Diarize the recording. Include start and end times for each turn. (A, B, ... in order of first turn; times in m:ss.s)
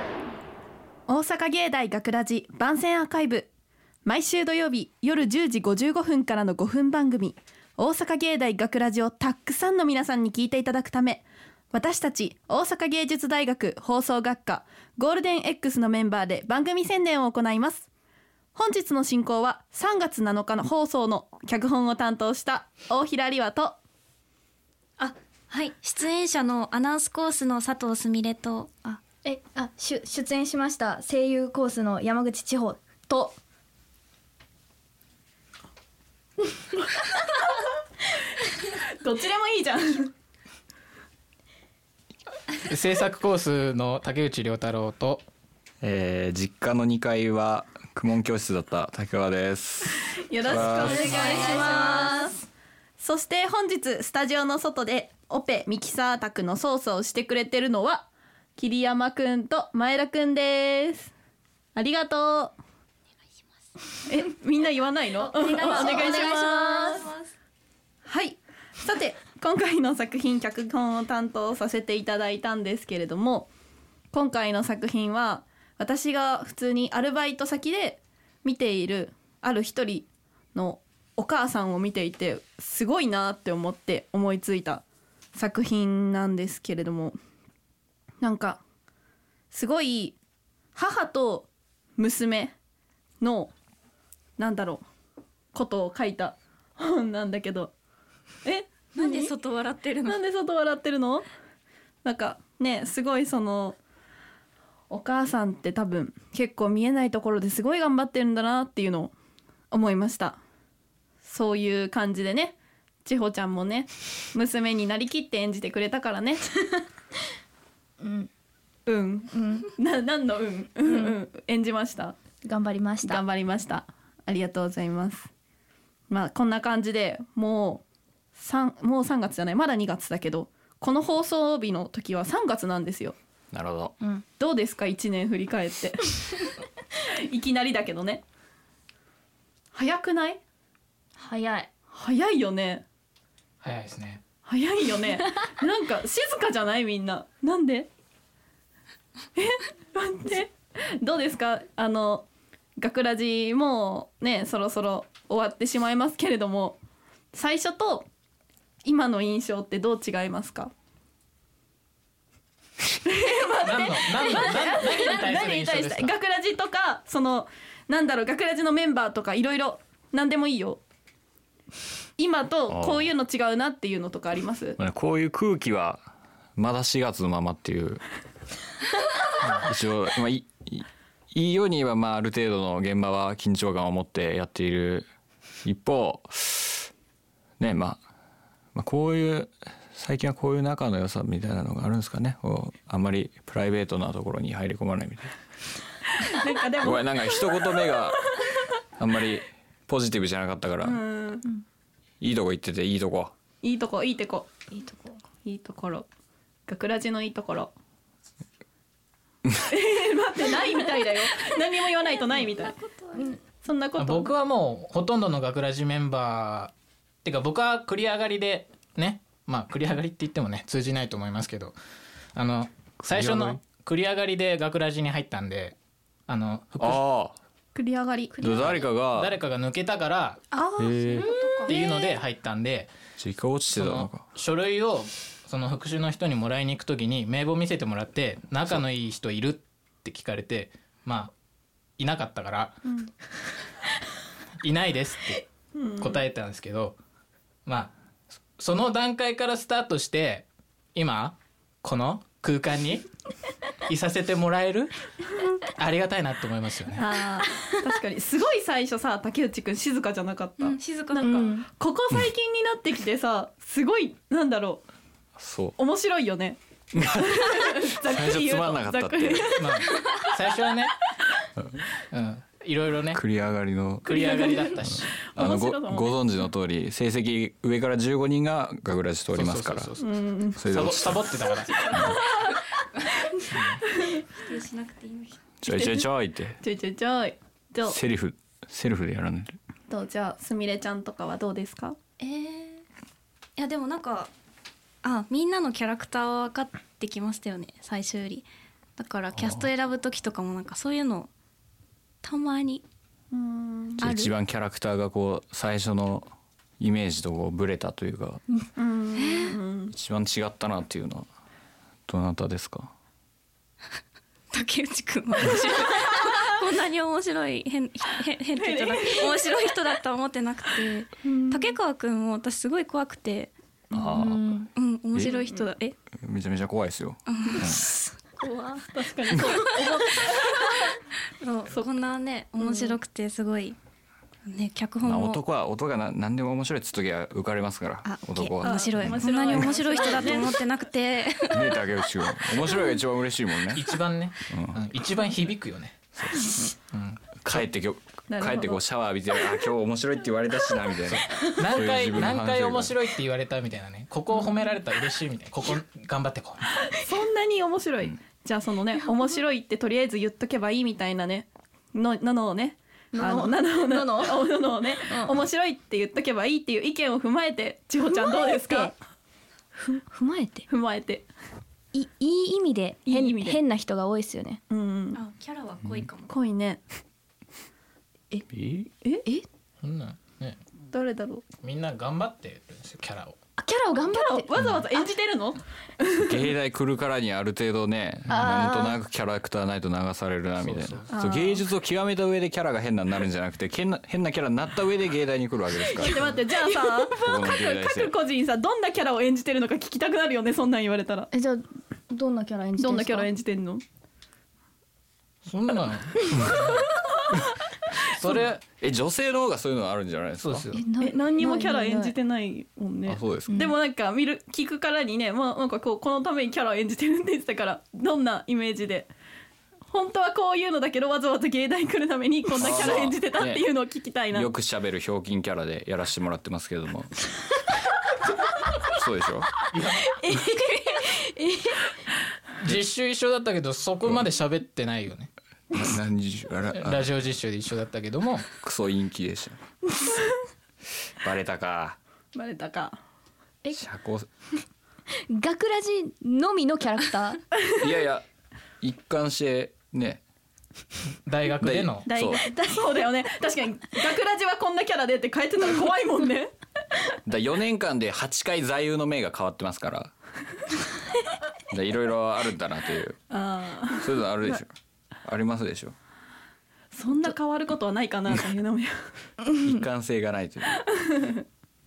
0:01.1-0:03.5 A
0:04.0-0:17.9 A
0:18.6-0:23.8 A
0:25.0-0:29.0 B
0:29.1-0:33.4 C
0:38.8-0:40.1 A
0:42.6-0:45.3 D
0:45.8-0:51.1 E
0:50.1-0:52.4 A
0:50.7-0:51.8 D
0:50.9-0:52.3 C
0:53.0-1:01.1 A
1:01.8-1:02.5 A
1:04.1-1:07.1 A
1:05.2-1:07.3 B
1:08.0-1:13.5 A
1:14.1-1:24.8 A
1:25.4-1:27.2 A
1:28.2-1:28.6 A
1:29.5-1:30.2 A
1:30.8-1:32.6 A
1:33.2-1:33.5 A
1:34.4-1:34.8 A
1:35.5-1:37.7 A
1:38.4-1:39.3 A
1:39.0-1:40.2 B
1:40.0-1:41.3 A
1:42.0-1:43.8 A
1:44.9-1:49.1 A
1:49.7-1:50.4 A
1:51.2-1:56.5 A
1:58.0-1:58.3 C
1:58.9-2:02.2 A
1:59.3-1:59.7 C
2:00.8-2:01.2 C
2:02.4-2:03.2 C
2:03.0-2:05.3 A
2:06.1-2:07.8 A
2:08.4-2:13.2 A
2:13.5-2:14.0 E
2:14.4-2:16.5 A
2:17.1-2:18.2 A
2:19.7-2:20.4 A
2:21.2-2:21.7 C
2:21.9-2:22.8 A
2:23.6-2:24.2 D
2:24.5-2:27.9 A
2:29.4-2:32.3 A
2:32.8-2:36.8 A
2:37.3-2:38.1 A
2:38.8-2:40.7 A
2:42.9-2:50.8 A
2:43.5-2:46.2 D
2:52.2-2:54.8 A
2:52.7-2:53.1 E
2:54.8-2:58.0 E
2:59.4-2:59.7 D
2:59.6-3:05.1 E
3:05.6-3:06.9 E
3:07.6-3:08.0 E
3:08.8-3:15.3 E
3:16.2-3:17.9 A
3:16.8-3:18.4 E
3:19.0-3:21.0 E
3:20.8-3:21.5 A
3:22.2-3:23.3 E
3:23.6-3:24.6 A
3:24.7-3:25.2 C
3:25.4-3:26.1 A
3:26.7-3:27.7 A
3:29.7-3:32.8 A
3:33.6-3:34.3 A
3:34.0-3:41.8 D
3:42.4-3:45.8 D
3:43.0-3:43.6 E
3:46.3-3:47.0 D
3:46.8-3:47.4 E
3:47.8-3:48.5 A
3:48.4-3:49.4 E
3:48.4-3:50.4 D
3:50.5-3:51.1 A
3:50.8-3:51.3 E
3:51.1-3:52.1 B
3:51.7-3:52.9 D
3:53.2-3:54.2 E
3:53.7-4:01.3 D
4:02.0-4:02.8 D
4:04.6-4:05.5 D
4:05.8-4:06.2 A
4:06.0-4:07.0 D
4:07.7-4:07.9 D
4:08.6-4:13.1 D
4:13.8-4:14.9 D
4:15.6-4:17.1 D
4:16.9-4:24.8 A
4:20.6-4:21.5 B
4:21.2-4:21.7 C
4:25.4-4:25.8 E
4:25.8-4:30.2 A
4:27.0-4:29.6 E
4:29.6-4:31.0 D
4:32.1-4:33.2 D
4:33.1-4:34.3 E
4:34.0-4:35.1 D
4:34.1-4:34.8 A
4:35.4-4:36.1 A
4:35.4-4:39.9 E
4:39.3-4:40.1 D
4:40.0-4:40.6 A
4:40.6-4:41.3 E
4:40.6-4:42.1 D
4:41.9-4:42.2 E
4:43.5-4:43.8 D
4:44.4-4:45.4 B
4:45.6-4:46.6 E
4:45.7-4:46.0 A
4:46.6-4:48.0 A
4:47.8-4:49.6 E
4:49.9-4:52.0 A
4:52.2-4:52.8 B
4:53.6-4:54.3 B
4:55.0-4:58.5 B
4:59.0-5:01.3 B
4:59.4-4:59.6 E
5:02.2-5:02.8 B
5:03.3-5:04.0 A
5:04.0-5:06.3 E
5:04.0-5:04.3 B
5:06.8-5:08.4 E
5:08.8-5:09.9 A
5:09.2-5:09.6 B
5:09.9-5:11.3 E
5:12.1-5:12.9 E
5:14.5-5:23.5 B
5:18.6-5:19.6 A
5:21.2-5:21.8 A
5:23.9-5:25.3 E
5:24.2-5:24.7 C
5:24.7-5:26.0 B
5:25.3-5:25.7 A
5:26.2-5:27.8 E
5:27.3-5:30.4 B
5:28.8-5:31.0 A
5:31.4-5:33.8 B
5:32.6-5:33.0 A
5:34.5-5:35.4 B
5:35.0-5:39.7 E
5:38.0-5:41.8 B
5:38.6-5:40.6 A
5:41.5-5:43.8 E
5:43.7-5:46.0 D
5:44.5-5:44.8 E
5:46.2-5:46.6 E
5:46.9-5:47.6 D
5:47.4-5:53.0 E
5:48.3-5:48.8 A
5:51.1-5:56.8 D
5:56.8-6:08.9 A
6:03.1-6:05.3 C
6:08.1-6:08.9 C
6:09.8-6:10.7 C
6:10.7-6:11.3 A
6:11.9-6:14.6 C
6:13.1-6:13.6 A
6:14.7-6:15.2 A
6:15.1-6:16.3 B
6:16.3-6:16.8 A
6:18.5-6:18.9 E
6:19.8-6:20.6 D
6:20.9-6:21.4 A
6:21.6-6:23.4 D
6:23.6-6:25.1 C
6:24.1-6:26.3 A
6:26.2-6:36.4 E
6:28.3-6:29.0 C
6:30.6-6:31.1 D
6:31.1-6:31.7 A
6:36.0-6:41.3 A
6:36.7-6:37.0 C
6:37.2-6:38.1 E
6:41.3-6:43.3 C
6:42.8-6:43.8 A
6:45.4-6:47.0 D
6:48.0-6:48.6 D
6:48.8-6:50.7 E
6:50.4-6:50.8 D
6:50.7-6:52.2 C
6:51.0-6:59.1 A
6:53.1-6:53.6 E
6:53.5-6:53.7 C
6:59.9-7:04.5 A
7:02.6-7:03.6 E
7:04.3-7:07.2 E
7:08.9-7:09.5 E
7:09.7-7:10.3 D
7:10.1-7:11.8 C
7:12.5-7:15.3 D
7:15.7-7:17.2 E
7:16.7-7:18.5 D
7:18.6-7:19.6 E
7:21.2-7:22.0 E
7:22.3-7:23.0 A
7:23.7-7:24.3 E
7:25.3-7:27.4 C
7:27.7-7:28.2 E
7:28.8-7:30.2 E
7:31.2-7:32.1 D
7:31.6-7:32.4 E
7:32.1-7:36.5 A
7:37.3-7:40.1 E
7:41.7-7:43.2 E
7:43.3-7:44.1 A
7:44.0-7:46.0 E
7:46.9-7:49.1 A
7:49.4-7:49.7 C
7:49.6-7:50.8 E
7:50.9-7:51.4 A